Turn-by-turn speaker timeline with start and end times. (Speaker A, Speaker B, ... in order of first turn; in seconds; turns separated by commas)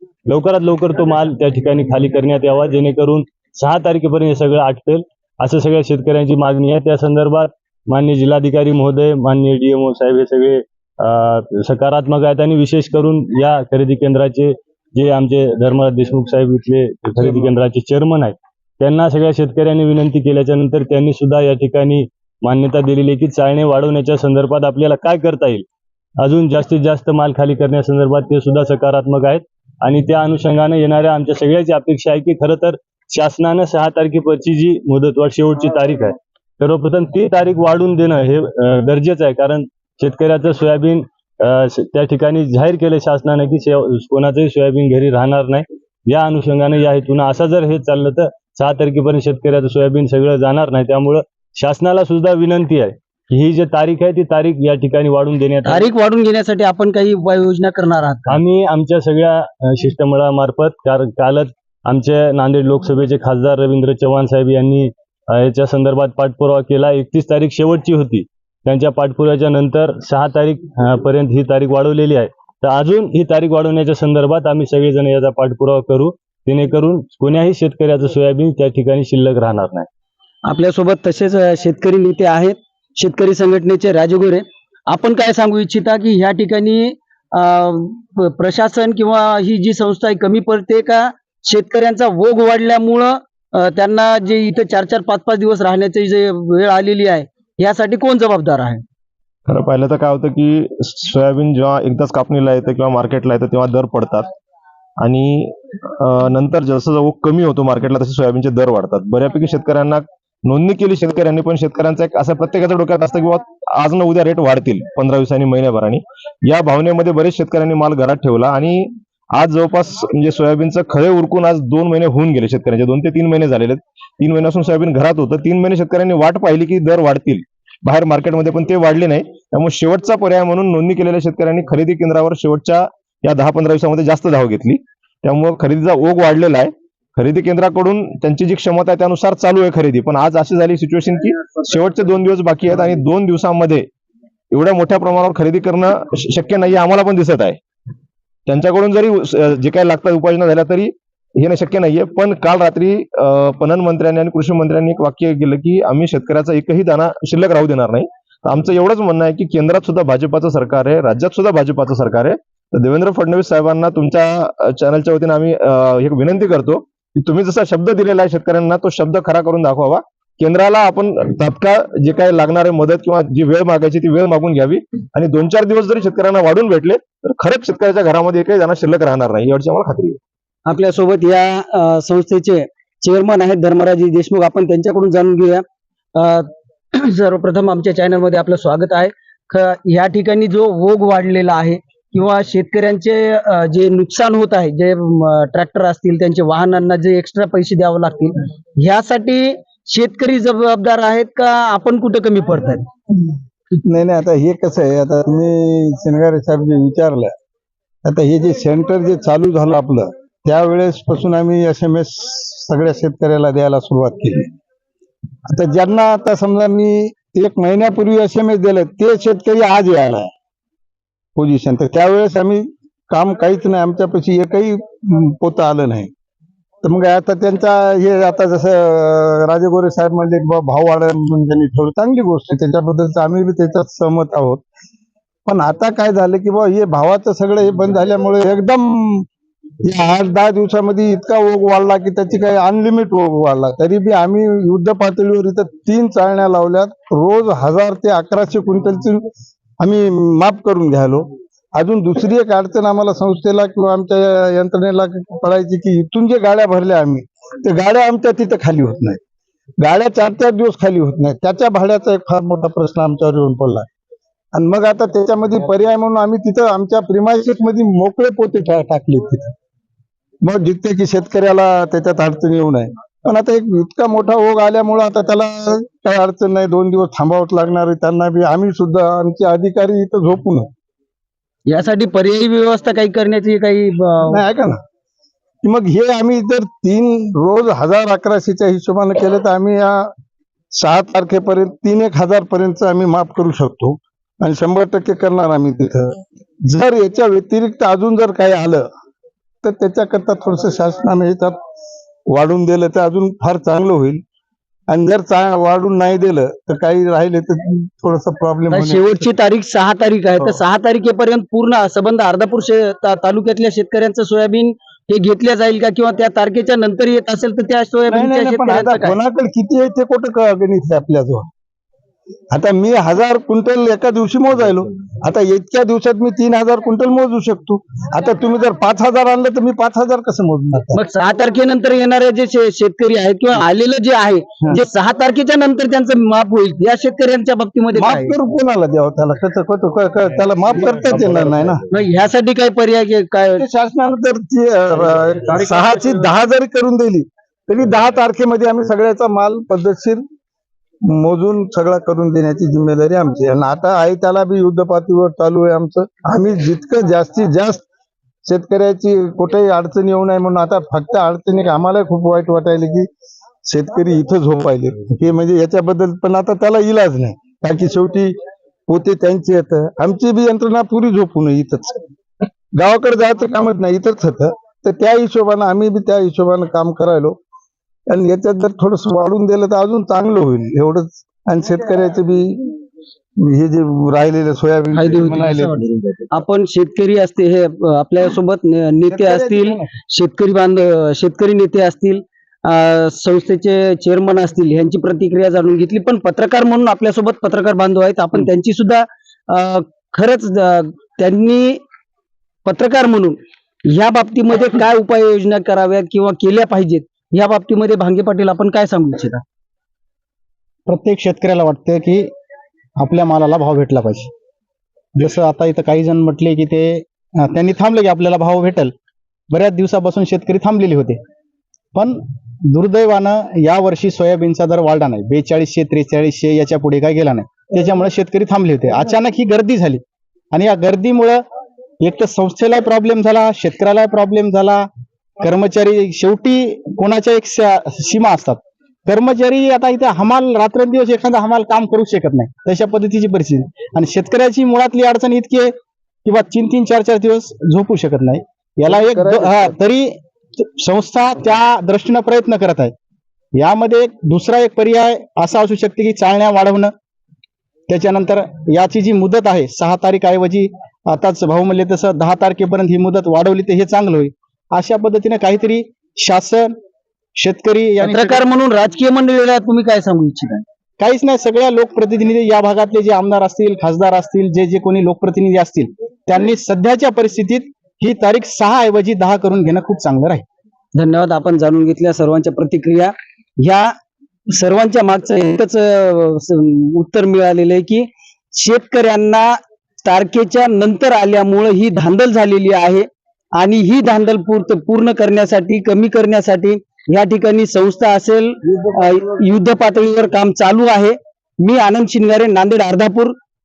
Speaker A: 0.3-25.7, Speaker A: 26.2-55.9, Speaker B: 55.7-58.4, Speaker A: 58.3-79.9, Speaker B: 80.5-98.8, Speaker C: 99.5-104.3, Speaker C: 105.0-143.9, Speaker C: 144.5-147.6, Speaker C: 148.5-180.2, Speaker B: 180.7-185.6, Speaker B: 186.2-202.8, Speaker D: 203.8-207.3, Speaker D: 208.1-214.5, Speaker D: 215.5-220.3, Speaker D: 221.4-226.1, Speaker D: 226.8-234.7, Speaker D: 235.5-239.2, Speaker D: 239.9-249.2, Speaker D: 249.8-251.2, Speaker D: 251.8-259.2, Speaker D: 259.8-263.9, Speaker D: 264.5-269.5, Speaker D: 270.4-280.7, Speaker B: 281.7-284.4, Speaker D: 284.3-284.8, Speaker D: 285.6-290.1, Speaker D: 290.8-298.9, Speaker D: 299.6-301.6, Speaker D: 302.3-304.2, Speaker D: 304.9-309.3, Speaker B: 308.7-319.2, Speaker D: 318.1-321.5, Speaker D: 322.5-331.0, Speaker B: 330.9-338.4, Speaker D: 338.0-341.8, Speaker A: 340.9-341.8, Speaker B: 341.9-343.6, Speaker D: 343.6-350.2, Speaker D: 351.1-357.9, Speaker D: 358.5-363.1, Speaker D: 363.7-368.3, Speaker D: 368.9-372.0, Speaker D: 372.8-377.4, Speaker D: 378.1-382.8, Speaker D: 383.4-386.3, Speaker B: 385.0-385.8, Speaker B: 386.3-401.8, Speaker D: 389.1-389.9, Speaker B: 402.6-403.4, Speaker B: 403.9-409.4, Speaker E: 410.9-412.3, Speaker E: 413.0-414.3, Speaker E: 415.2-418.9, Speaker E: 419.5-421.2, Speaker E: 421.9-430.0, Speaker E: 430.5-431.4, Speaker E: 432.0-434.9, Speaker E: 435.4-445.7, Speaker E: 446.2-452.9, Speaker D: 448.9-449.7, Speaker E: 453.6-456.9, Speaker E: 457.9-466.7, Speaker E: 467.4-468.4, Speaker B: 468.0-470.6, Speaker E: 471.0-480.4, Speaker B: 480.9-483.9, Speaker B: 484.5-503.4, Speaker D: 498.7-499.4